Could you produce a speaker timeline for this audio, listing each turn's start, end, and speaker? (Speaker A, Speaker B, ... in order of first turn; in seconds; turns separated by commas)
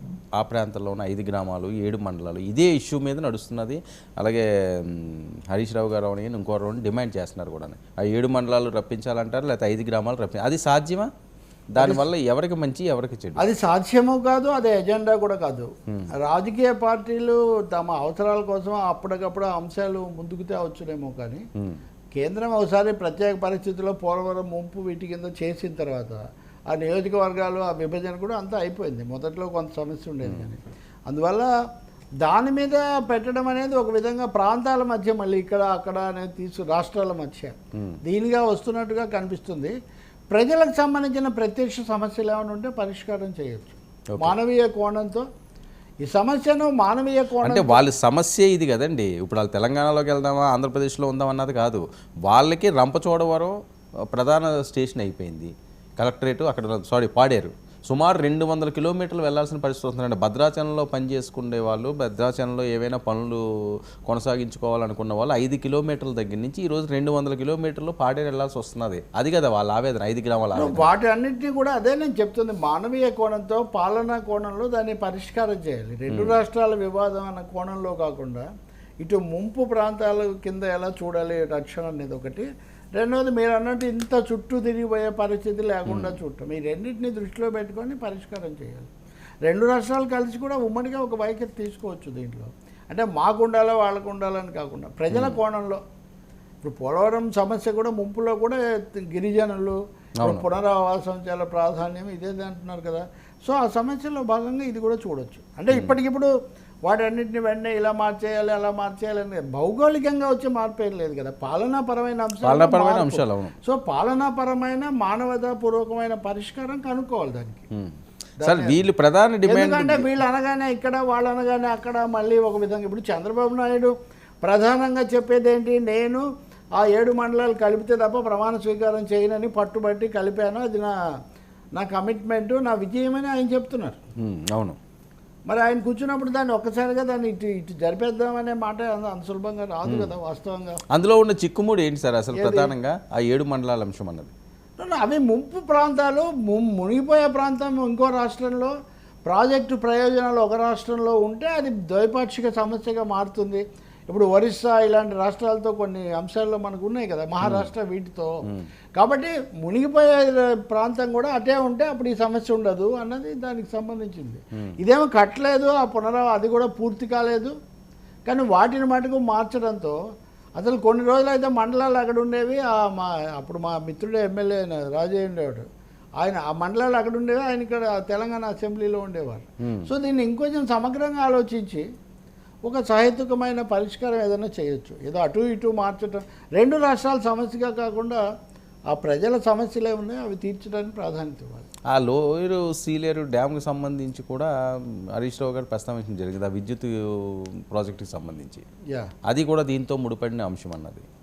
Speaker A: 0.4-11.1, Speaker A: 11.7-13.4, Speaker B: 11.8-12.1, Speaker B: 13.4-15.7, Speaker B: 16.2-21.4, Speaker B: 22.1-31.5, Speaker B: 32.2-39.8, Speaker B: 40.3-45.3, Speaker B: 46.0-47.8, Speaker A: 47.4-53.6, Speaker A: 54.1-63.4, Speaker A: 64.0-70.9, Speaker B: 70.5-78.5, Speaker A: 76.1-76.4, Speaker B: 79.0-88.9, Speaker A: 85.9-86.2, Speaker B: 89.5-95.8, Speaker A: 95.1-95.4, Speaker B: 96.6-106.3, Speaker A: 100.2-100.5, Speaker B: 106.9-117.7, Speaker A: 112.4-113.5, Speaker A: 117.7-120.2, Speaker B: 118.4-118.8, Speaker B: 119.5-126.3, Speaker B: 126.8-131.0, Speaker B: 131.8-134.0, Speaker A: 134.2-134.8, Speaker B: 135.5-140.8, Speaker A: 139.9-140.1, Speaker A: 140.9-144.3, Speaker B: 142.3-142.7, Speaker B: 144.8-148.7, Speaker B: 149.3-158.4, Speaker A: 157.4-157.7, Speaker B: 159.0-167.6, Speaker B: 168.3-170.0, Speaker B: 170.6-175.7, Speaker B: 176.2-181.9, Speaker A: 179.6-179.9, Speaker B: 182.7-188.2, Speaker B: 188.9-191.7, Speaker A: 191.9-194.5, Speaker A: 195.2-198.6, Speaker A: 199.3-201.1